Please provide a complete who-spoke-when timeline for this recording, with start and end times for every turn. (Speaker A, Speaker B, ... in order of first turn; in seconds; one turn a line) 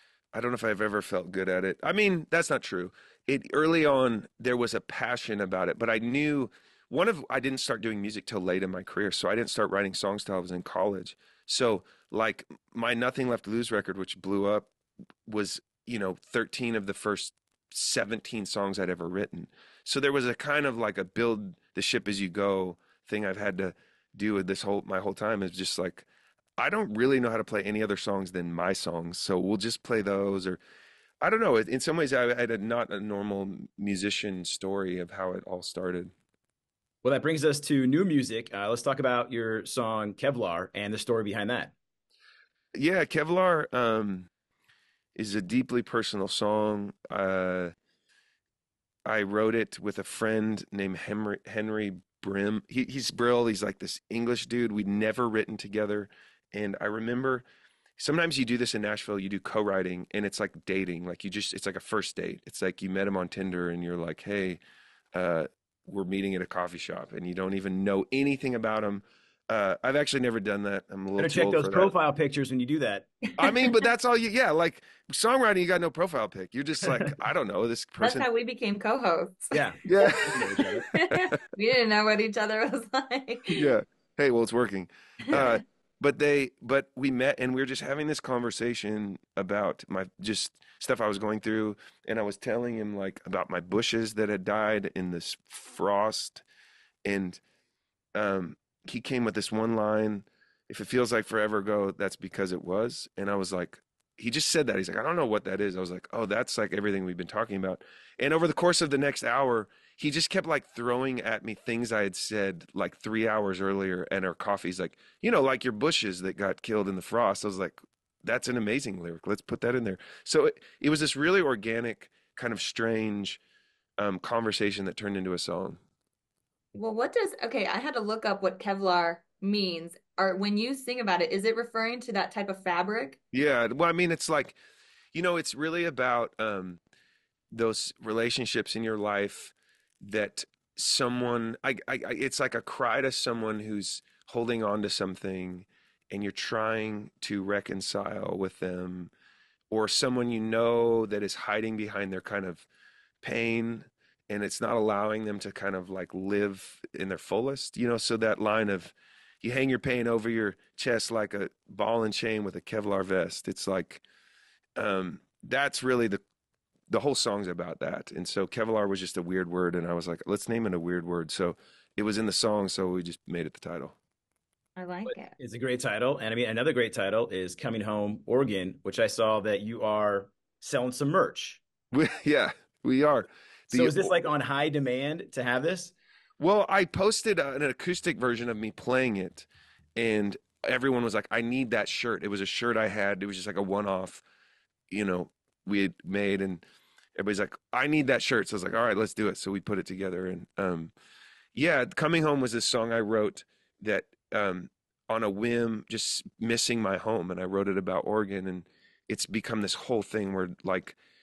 Speaker A: 0.3-14.7
Speaker A: 15.2-26.1
Speaker A: 26.6-30.6
Speaker A: 31.2-36.1
Speaker B: 37.0-41.7
Speaker A: 42.7-44.3
Speaker A: 45.1-47.7
Speaker A: 49.0-57.4
Speaker A: 58.0-64.6
Speaker A: 65.1-71.9
Speaker B: 71.2-73.1
Speaker A: 73.4-78.3
Speaker C: 73.4-73.7
Speaker C: 78.0-83.7
Speaker B: 79.5-80.8
Speaker A: 79.8-80.5
Speaker A: 83.5-96.4
Speaker C: 85.3-85.6
Speaker A: 97.0-97.4
Speaker A: 98.1-123.4
Speaker A: 124.0-125.8
Speaker C: 126.7-133.2
Speaker A: 133.3-134.6
Speaker A: 135.1-136.8
Speaker A: 137.5-149.1
Speaker A: 149.7-152.7
Speaker A: 153.2-164.0
Speaker A: 164.8-166.2
Speaker A: 166.9-173.9
Speaker C: 174.8-175.3
Speaker B: 175.1-181.6
Speaker A: 181.9-184.2
Speaker B: 183.7-185.9
Speaker A: 186.4-194.2
Speaker A: 194.9-196.6
Speaker A: 197.2-200.9
Speaker A: 201.5-211.0